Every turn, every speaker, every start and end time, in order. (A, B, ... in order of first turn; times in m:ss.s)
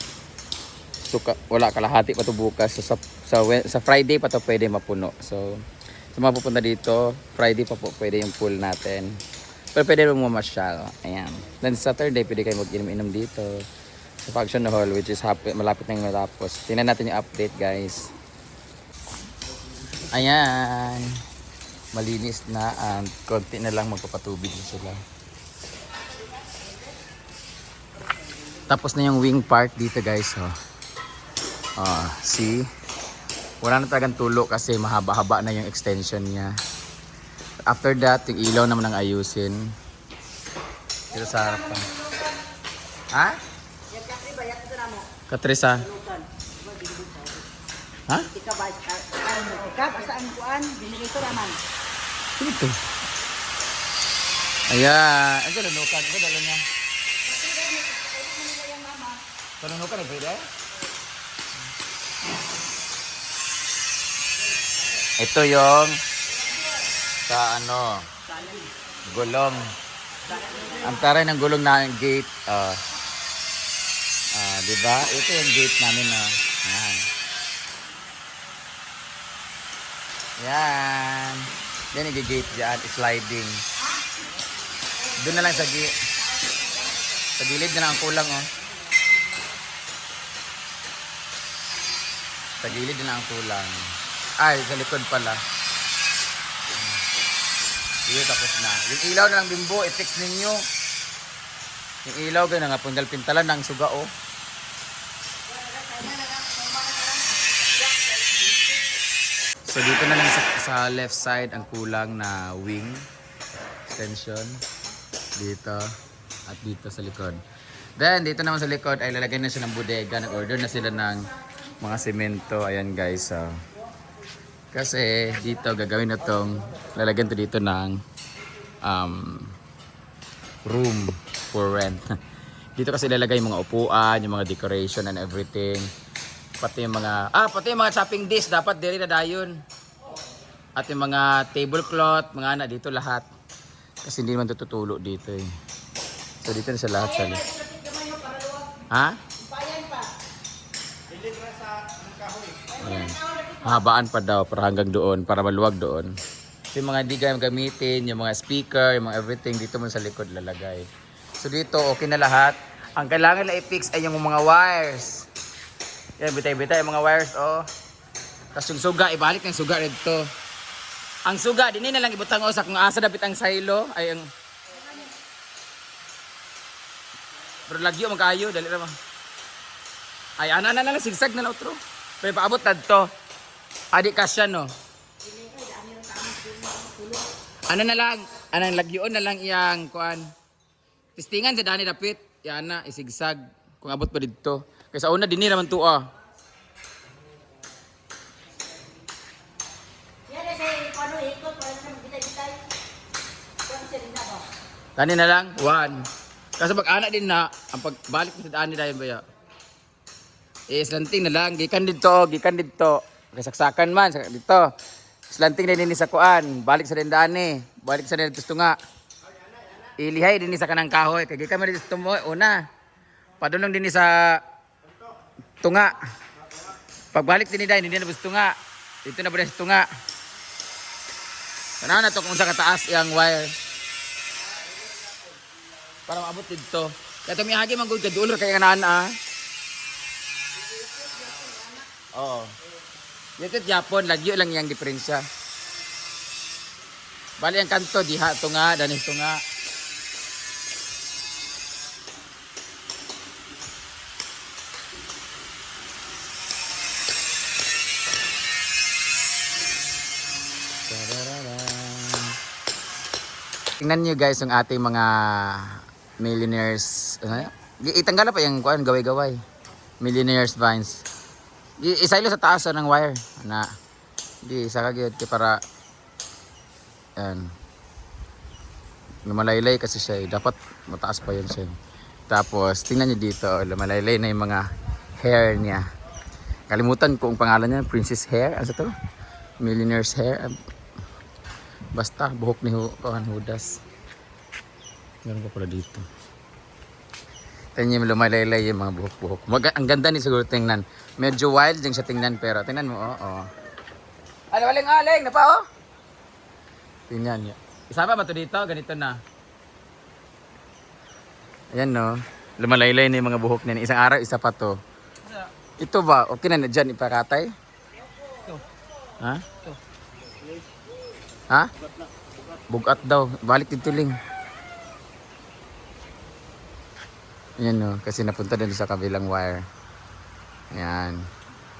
0:01.0-0:09.2 A
0:09.8-0:13.6 A
0:14.2-0:18.1 A
0:20.1-0:21.2 A
0:21.9-0:25.0 A
0:28.7-0:30.5 A
0:31.8-0:32.7 A
0:33.6-0:36.5 A
0:37.7-0:39.7 A
0:41.1-0:41.9 A
0:43.1-0:43.4 A
0:43.9-0:45.0 B
0:45.3-0:45.9 A
0:45.8-0:47.3 B
0:48.3-0:51.6 B
0:52.4-0:52.8 A
0:54.7-0:56.6 A
0:57.3-0:59.2 B
0:59.6-1:00.5 A
1:05.2-1:06.0 A
1:07.3-1:08.1 A
1:09.1-1:09.7 A
1:10.8-1:12.8 A
1:14.3-1:17.1 A
1:20.4-1:23.6 A
1:25.2-1:25.9 A
1:27.4-1:28.5 A
1:32.6-1:35.4 A
1:38.1-1:40.6 A
1:42.0-1:44.1 A
1:49.7-1:53.0 A
1:53.9-1:54.6 A
1:55.4-1:55.9 A
1:56.5-1:57.4 A
1:58.0-2:01.3 A
2:01.8-2:03.6 A
2:04.7-2:08.0 A
2:08.8-2:09.6 A
2:10.6-2:12.0 A
2:12.8-2:15.9 A
2:16.6-2:19.6 A
2:20.8-2:23.3 A
2:24.0-2:25.5 A
2:26.4-2:27.4 A
2:27.0-2:28.8 B
2:28.9-2:29.2 A
2:29.4-2:30.1 B
2:32.8-2:36.1 A
2:32.8-2:33.5 B
2:36.7-2:40.9 A
2:41.4-2:45.3 A
2:46.2-2:47.7 A
2:48.5-2:50.3 A
2:51.2-2:54.3 A
2:57.7-2:59.0 A
3:00.4-3:03.1 A
3:03.9-3:04.7 A
3:07.7-3:10.3 A
3:11.2-3:16.1 A
3:20.3-3:22.6 B
3:23.7-3:24.4 B
3:25.0-3:26.0 A
3:26.6-3:29.2 A
3:30.7-3:34.7 A
3:35.3-3:38.8 A
3:40.0-3:42.6 A
3:43.4-3:44.4 A
3:45.6-3:46.0 A
3:47.1-3:49.8 A
3:51.8-3:53.5 A
3:56.1-3:59.2 A
4:02.1-4:02.6 A
4:03.4-4:05.2 A
4:07.4-4:09.4 A
4:20.9-4:22.4 A
4:23.8-4:29.4 A
4:30.0-4:31.1 A
4:31.8-4:33.7 A
4:34.4-4:35.6 A
4:37.2-4:37.5 A
4:39.2-4:41.8 A
4:42.3-4:44.7 A
4:45.2-4:45.8 A
4:46.7-4:48.9 A
4:49.6-4:50.5 A
4:52.0-4:53.8 A
4:55.2-4:56.1 A
4:57.8-5:03.5 A
5:04.5-5:05.6 A
5:07.1-5:09.2 A
5:11.7-5:14.8 A
5:15.8-5:17.5 A
5:19.2-5:19.4 A
5:22.7-5:24.2 A
5:27.6-5:29.7 A
5:30.7-5:31.2 A